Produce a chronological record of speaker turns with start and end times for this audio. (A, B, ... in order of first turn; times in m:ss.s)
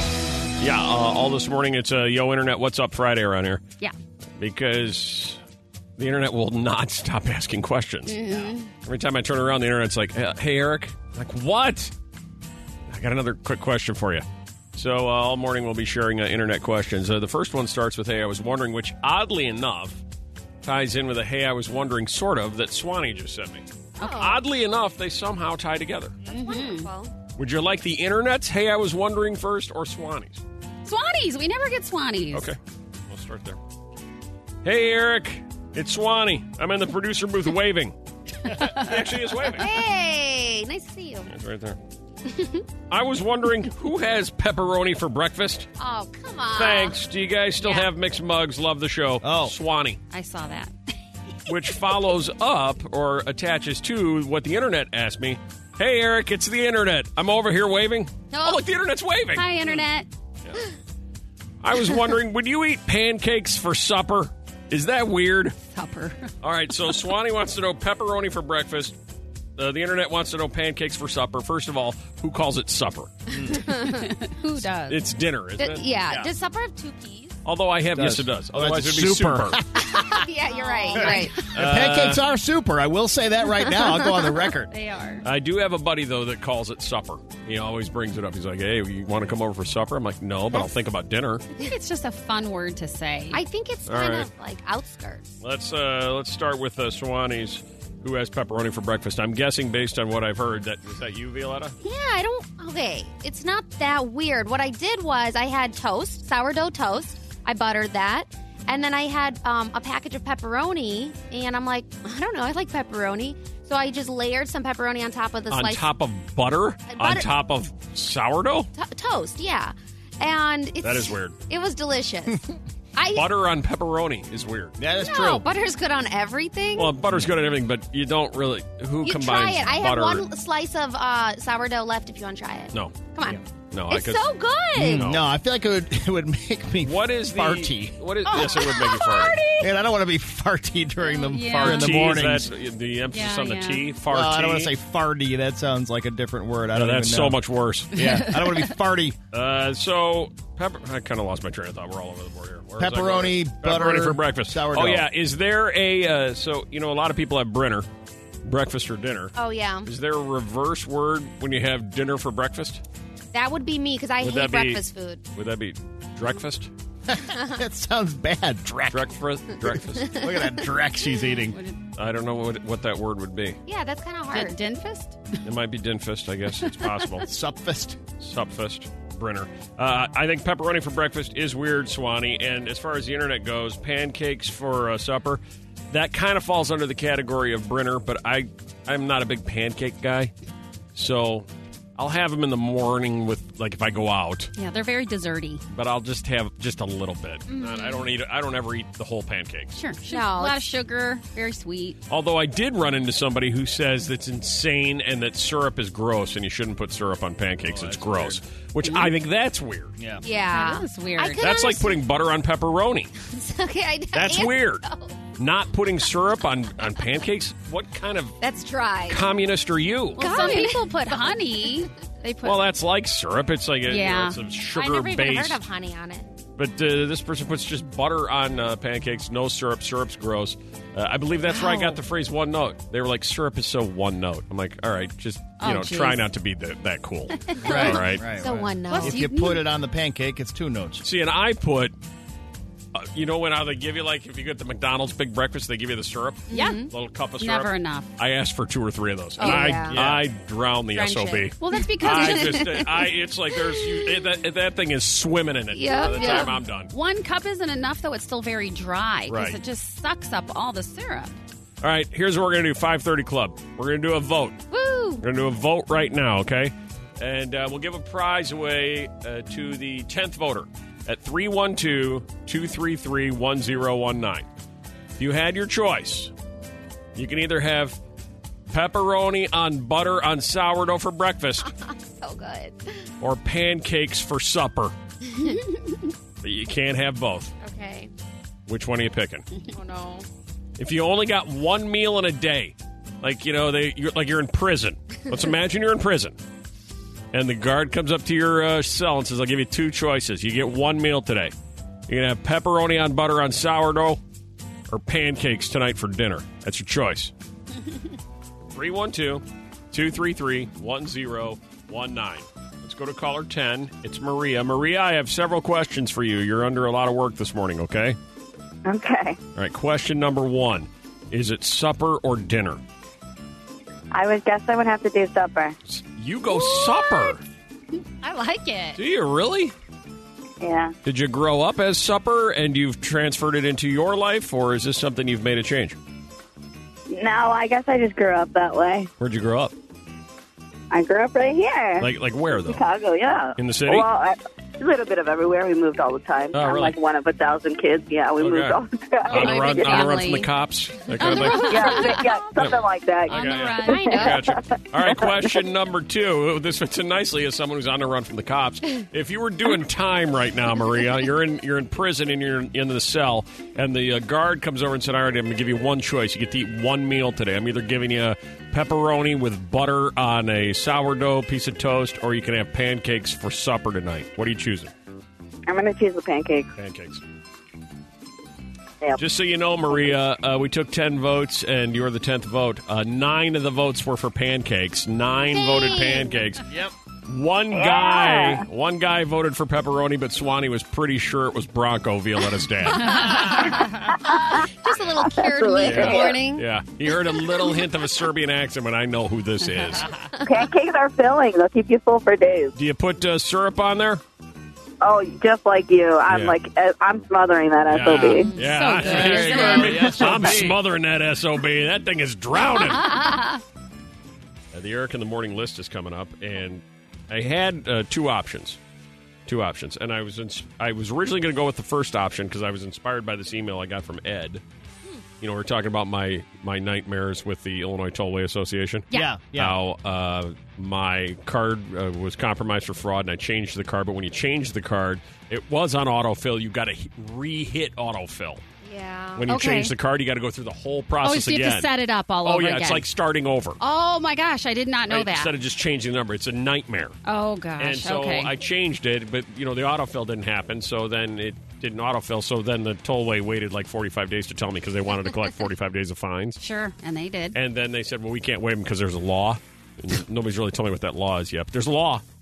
0:00.6-0:03.6 A
0:04.4-0:05.4 A
0:06.0-0:11.9 A
0:08.1-0:08.7 B
0:12.9-0:20.0 A
0:20.6-0:26.2 A
0:24.0-0:24.4 C
0:24.0-0:24.3 B
0:26.3-0:27.1 C
0:26.3-0:26.9 B
0:27.4-0:30.4 A
0:30.8-0:32.5 B
0:32.3-0:32.6 A
0:33.1-0:33.6 A
0:34.6-0:39.6 A
0:38.5-0:38.9 B
0:39.6-0:41.3 C
0:41.3-0:41.8 A
0:42.9-0:45.7 A
0:45.8-0:47.0 C
0:46.6-0:50.0 A
0:47.6-0:47.9 B
0:49.2-0:49.5 D
0:50.1-0:50.7 B
0:51.5-0:59.7 A
0:58.3-0:58.6 C
0:59.3-1:00.1 B
1:01.6-1:05.6 A
1:05.6-1:06.3 B
1:06.4-1:09.0 A
1:09.6-1:13.2 A
1:13.3-1:13.6 D
1:13.4-1:14.1 C
1:13.7-1:15.0 B
1:14.8-1:15.9 A
1:15.6-1:17.4 C
1:17.4-1:19.6 A
1:17.9-1:20.3 D
1:19.8-1:21.5 C
1:20.5-1:21.3 B
1:20.9-1:24.7 D
1:21.5-1:22.2 A
1:24.7-1:25.2 B
1:25.2-1:31.4 A
1:31.6-1:33.4 B
1:33.3-1:35.4 C
1:33.9-1:34.3 A
1:35.4-1:41.8 A
1:41.8-1:55.9 C
1:55.5-1:58.7 A
1:56.9-1:57.3 C
1:58.7-2:03.3 C
2:00.8-2:01.3 A
2:03.1-2:04.8 A
2:04.8-2:05.4 D
2:05.0-2:06.9 C
2:06.8-2:10.2 A
2:09.0-2:15.0 C
2:13.7-2:14.3 A
2:14.8-2:18.0 D
2:14.8-2:15.2 A
2:16.8-2:19.4 A
2:18.3-2:19.7 B
2:18.4-2:19.5 C
2:19.6-2:22.5 D
2:21.2-2:22.1 B
2:21.6-2:24.7 A
2:23.1-2:23.8 B
2:24.1-2:27.4 D
2:26.7-2:28.2 A
2:27.9-2:29.2 D
2:28.0-2:28.6 B
2:29.3-2:37.9 A
2:32.8-2:35.1 D
2:38.4-2:42.8 A
2:39.3-2:39.9 C
2:43.3-2:45.2 C
2:44.2-2:44.8 A
2:45.3-2:46.7 A
2:47.1-2:51.6 D
2:47.3-2:47.6 C
2:48.9-2:50.2 A
2:50.0-2:50.6 C
2:51.5-2:51.8 B
2:52.0-2:53.6 A
2:53.6-2:54.6 C
2:54.3-2:55.4 B
2:55.4-2:57.3 A
2:56.7-2:57.0 B
2:57.2-2:58.0 D
2:58.2-3:10.3 A
3:10.9-3:14.5 A
3:14.6-3:15.6 B
3:15.7-3:19.7 A
3:17.5-3:18.1 C
3:19.7-3:22.0 B
3:20.1-3:20.6 C
3:22.1-3:30.0 A
3:27.6-3:28.4 D
3:30.0-3:30.2 D
3:30.2-3:32.0 C
3:30.5-3:31.4 B
3:31.4-3:33.1 A
3:33.2-3:35.2 C
3:34.1-3:34.8 A
3:35.4-3:38.4 A
3:38.4-3:39.2 C
3:39.1-3:40.2 A
3:40.2-3:42.6 B
3:40.2-3:40.9 C
3:42.4-3:45.6 A
3:43.8-3:44.4 B
3:44.7-3:46.3 C
3:46.6-3:58.2 A
3:51.5-3:52.0 B
3:55.6-3:56.2 B
3:57.4-3:58.0 B
3:57.6-3:59.3 C
3:57.6-4:01.0 D
3:58.9-3:59.6 B
4:01.0-4:01.9 A
4:02.9-4:16.9 A
4:06.5-4:06.9 C
4:06.5-4:08.1 B
4:09.4-4:10.0 C
4:09.4-4:10.2 D
4:10.9-4:14.0 C
4:11.6-4:12.8 B
4:15.7-4:16.5 C
4:16.0-4:21.3 B
4:19.3-4:19.6 A
4:21.8-4:24.6 A
4:24.7-4:25.2 C
4:25.2-4:34.5 A
4:35.2-4:36.3 A
4:37.1-4:38.0 A
4:38.7-4:41.7 A
4:41.6-4:43.0 C
4:43.2-4:44.9 A
4:45.3-4:45.6 C
4:45.4-4:46.0 B
4:46.4-4:47.5 A
4:47.6-4:48.1 C
4:48.7-4:49.5 A
4:49.7-4:50.2 C
4:50.8-4:56.4 A
4:57.3-5:01.5 A
5:02.1-5:04.2 A
5:04.9-5:07.3 A
5:08.7-5:18.2 A
5:18.8-5:19.4 E
5:19.5-5:22.8 A
5:24.1-5:25.8 E
5:25.9-5:27.4 A
5:26.6-5:27.3 B
5:28.2-5:29.0 B
5:29.0-5:29.7 A
5:30.6-5:30.9 E
5:31.0-5:36.0 A
5:37.1-5:39.1 E
5:39.2-5:39.7 A
5:40.9-5:50.2 E
5:42.0-5:42.8 A
5:43.6-5:44.1 A
5:46.5-5:46.9 A
5:48.4-6:14.9 A
5:49.3-5:50.5 B
5:51.2-5:52.4 B
5:51.4-5:55.5 E
5:53.3-5:54.4 B
6:15.7-6:16.7 E
6:16.8-6:17.2 A
6:19.2-6:26.7 A
6:25.5-6:26.3 C
6:27.3-6:33.5 A
6:27.7-6:28.6 E
6:32.9-6:34.1 B
6:33.3-6:36.6 C
6:34.1-6:36.4 E
6:35.8-6:40.1 A
6:40.4-6:42.7 E
6:42.7-6:44.2 A
6:45.0-6:48.5 E
6:46.3-6:46.6 A
6:47.9-6:53.2 A
6:48.4-6:50.3 B
6:49.0-6:50.8 D
6:52.7-6:53.6 B
6:54.7-6:58.8 A
6:59.4-7:04.6 A
7:05.4-7:18.6 A
7:09.1-7:09.8 D
7:18.8-7:19.5 C
7:19.4-7:21.9 A
7:19.5-7:19.9 B
7:21.2-7:23.0 B
7:22.4-7:23.8 A
7:23.8-7:25.5 B
7:25.1-7:27.2 A
7:27.2-7:28.5 B
7:27.8-7:36.6 A
7:36.6-7:37.6 B
7:37.5-7:42.2 A